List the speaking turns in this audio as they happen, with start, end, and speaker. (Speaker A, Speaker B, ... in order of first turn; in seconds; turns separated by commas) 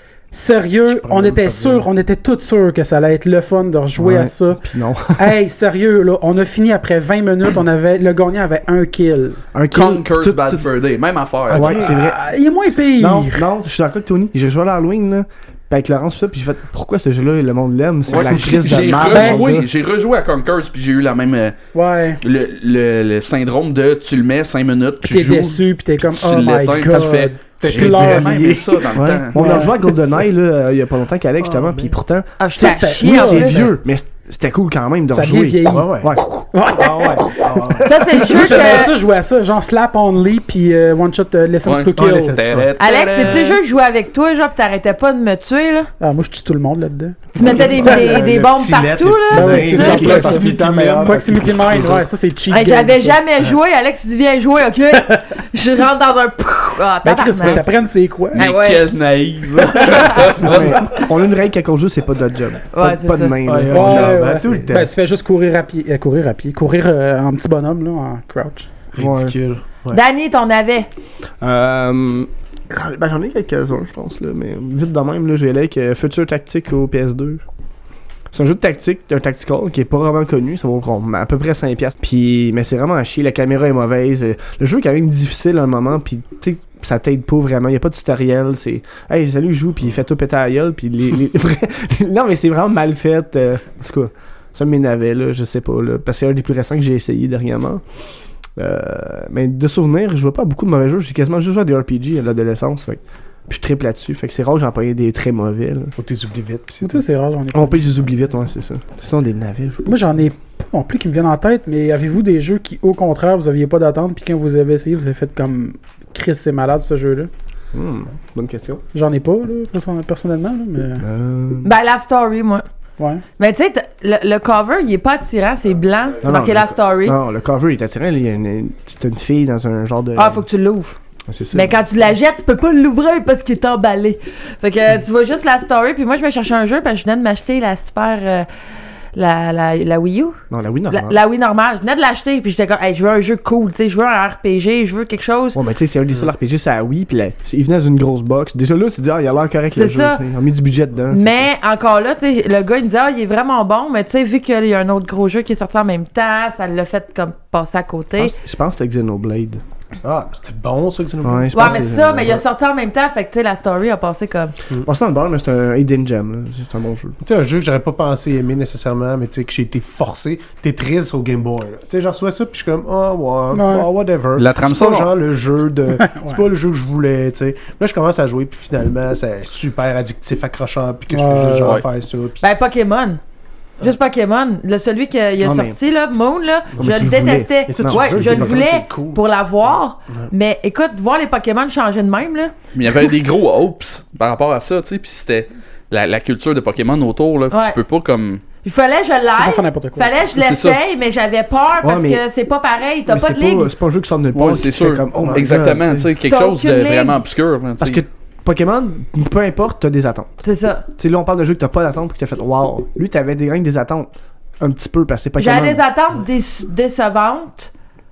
Speaker A: 0.3-4.6, Speaker B: 0.9-1.9, Speaker C: 4.0-5.3, Speaker A: 5.1-9.4, Speaker C: 9.5-10.6, Speaker D: 9.7-11.8, Speaker B: 11.5-11.9, Speaker C: 11.5-12.2, Speaker A: 11.8-13.4, Speaker C: 12.9-19.7, Speaker D: 18.1-21.6, Speaker A: 19.1-19.4, Speaker A: 21.7-22.2, Speaker D: 22.2-29.7, Speaker A: 25.0-28.5, Speaker B: 27.6-28.9, Speaker C: 28.9-36.2, Speaker A: 29.3-29.7, Speaker B: 31.4-31.9, Speaker E: 32.4-33.7, Speaker A: 32.5-33.6, Speaker A: 35.1-42.4, Speaker B: 35.7-36.1, Speaker B: 36.8-38.2, Speaker E: 37.8-38.9, Speaker D: 38.3-38.9, Speaker D: 41.6-43.5, Speaker B: 42.0-43.5, Speaker E: 42.8-45.9, Speaker A: 46.0-48.2, Speaker E: 47.3-50.6, Speaker B: 47.4-52.0, Speaker A: 49.3-53.2, Speaker C: 50.7-51.5, Speaker E: 52.5-57.6, Speaker A: 55.0-55.2, Speaker A: 57.0-58.5, Speaker D: 58.3-61.0, Speaker E: 58.4-58.8, Speaker C: 60.4-64.6, Speaker E: 62.7-63.4, Speaker B: 63.4-64.9, Speaker A: 63.7-68.7, Speaker B: 68.9-70.0, Speaker C: 69.0-69.3, Speaker E: 69.9-70.9, Speaker C: 71.4-77.4, Speaker C: 78.3-97.8, Speaker C: 98.6-105.9, Speaker B: 106.0-107.1, Speaker A: 106.8-107.8, Speaker C: 107.5-110.0, Speaker A: 109.8-117.3, Speaker C: 117.7-118.8, Speaker A: 118.9-121.0, Speaker C: 121.0-121.7, Speaker E: 121.6-122.6, Speaker A: 123.0-123.2, Speaker E: 123.4-127.1, Speaker C: 126.2-130.5, Speaker E: 130.2-130.9, Speaker C: 131.3-131.8, Speaker E: 131.5-138.5, Speaker E: 139.1-145.6, Speaker C: 140.5-141.2, Speaker C: 145.5-151.4, Speaker E: 149.7-150.2, Speaker E: 151.1-158.3, Speaker C: 158.2-159.6, Speaker B: 160.0-162.4, Speaker C: 161.2-162.4, Speaker E: 161.5-164.5, Speaker C: 164.8-167.2, Speaker B: 167.2-182.4, Speaker A: 173.5-173.9, Speaker D: 174.3-175.1, Speaker A: 176.0-176.4, Speaker A: 181.1-181.8, Speaker E: 182.4-183.2, Speaker E: 183.8-192.5, Speaker C: 185.4-185.8, Speaker B: 186.8-187.1, Speaker C: 186.8-188.6, Speaker B: 187.7-189.2, Speaker D: 192.7-198.4, Speaker E: 197.5-197.8, Speaker E: 198.6-203.7, Speaker A: 199.4-200.1, Speaker D: 200.3-200.8, Speaker C: 201.8-202.2, Speaker C: 203.1-206.1, Speaker D: 204.3-208.0, Speaker E: 206.2-207.2, Speaker C: 207.8-210.4, Speaker E: 210.4-210.8, Speaker C: 211.0-215.8, Speaker E: 215.4-217.7